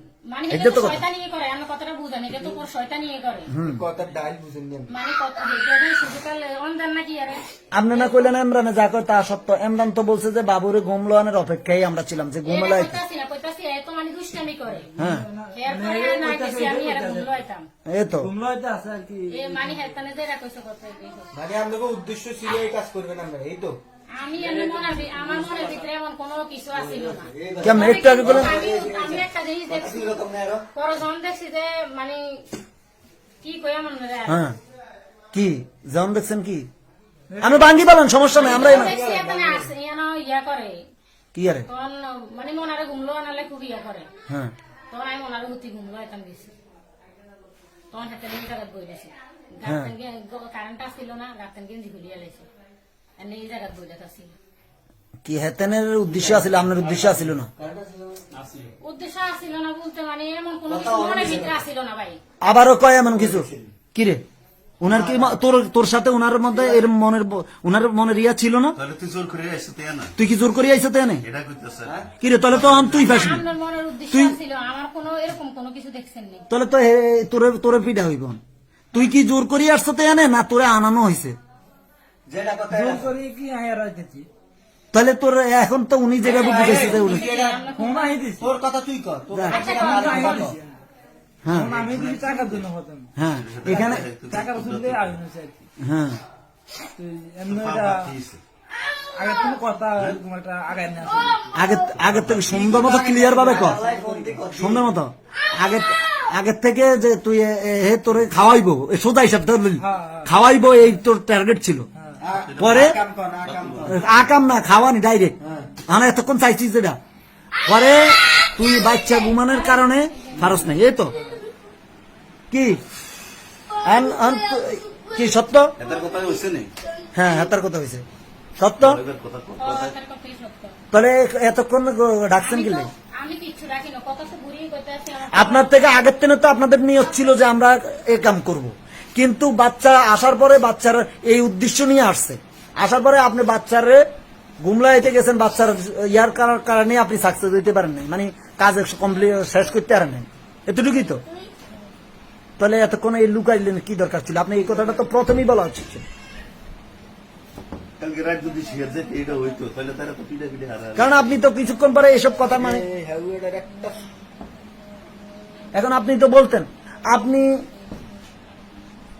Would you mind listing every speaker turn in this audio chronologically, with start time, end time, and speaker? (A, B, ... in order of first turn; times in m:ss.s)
0:00.2-0:03.5 A
0:00.5-0:01.0 B
0:03.5-0:03.8 B
0:03.6-0:04.9 C
0:04.9-0:08.3 A
0:07.7-0:13.0 B
0:12.4-0:14.9 A
0:14.7-0:17.4 D
0:15.0-0:15.2 B
0:15.5-0:17.6 A
0:17.8-0:18.3 B
0:18.2-0:19.8 D
0:19.3-0:21.3 A
0:21.3-0:23.8 C
0:24.1-0:30.2 A
0:24.4-0:25.8 D
0:26.7-0:30.6 C
0:27.6-0:28.6 B
0:30.7-0:32.5 A
0:33.4-0:34.4 A
0:34.3-0:34.6 B
0:35.3-0:36.7 B
0:37.3-0:37.7 D
0:37.4-0:39.0 B
0:38.4-0:40.8 A
0:38.4-0:39.7 C
0:41.3-0:41.7 B
0:41.7-0:44.1 A
0:44.9-0:46.5 A
0:47.9-0:52.5 A
0:49.6-0:49.9 B
0:53.2-0:54.3 A
0:55.2-0:57.5 B
0:56.1-0:56.4 C
0:57.6-0:58.2 C
0:58.8-1:02.2 A
1:00.7-1:01.6 C
1:02.4-1:04.2 B
1:03.1-1:03.7 C
1:04.8-1:08.8 B
1:04.8-1:05.3 C
1:06.5-1:06.8 C
1:08.8-1:10.1 E
1:10.2-1:11.2 B
1:11.2-1:13.3 E
1:12.2-1:13.4 B
1:12.9-1:16.5 A
1:14.1-1:14.4 B
1:16.5-1:18.4 B
1:18.9-1:21.4 B
1:22.3-1:23.1 C
1:22.7-1:24.3 D
1:24.9-1:27.3 B
1:26.2-1:27.6 C
1:26.2-1:28.1 A
1:26.6-1:27.0 D
1:27.7-1:28.5 D
1:28.4-1:30.6 C
1:29.3-1:29.7 B
1:29.5-1:30.5 A
1:29.5-1:30.8 D
1:31.4-1:31.7 B
1:31.5-1:33.1 D
1:31.6-1:32.6 E
1:33.2-1:34.0 B
1:33.3-1:35.2 E
1:33.6-1:35.6 D
1:35.8-1:36.2 B
1:37.0-1:38.1 D
1:37.5-1:38.4 E
1:39.1-1:41.5 D
1:41.5-1:51.9 B
1:41.9-1:43.1 E
1:42.6-1:44.8 C
1:44.0-1:44.3 D
1:49.8-1:50.3 D
1:52.0-1:52.2 D
1:52.2-1:54.0 C
1:52.3-1:54.3 E
1:52.6-1:53.0 B
1:53.8-1:55.4 B
1:55.4-1:55.7 C
1:55.9-1:57.0 B
1:57.7-2:01.2 B
1:59.4-2:00.7 A
2:01.2-2:01.4 D
2:02.5-2:02.8 B
2:03.8-2:05.7 B
2:05.8-2:06.7 E
2:07.1-2:08.0 B
2:08.6-2:09.0 B
2:08.8-2:09.9 E
2:09.6-2:10.8 A
2:10.9-2:12.9 B
2:12.4-2:16.1 A
2:15.3-2:24.0 B
2:24.6-2:31.2 B
2:32.6-2:36.0 B
2:38.0-2:41.4 E
2:41.0-2:42.8 B
2:42.5-2:44.0 C
2:45.7-2:47.6 B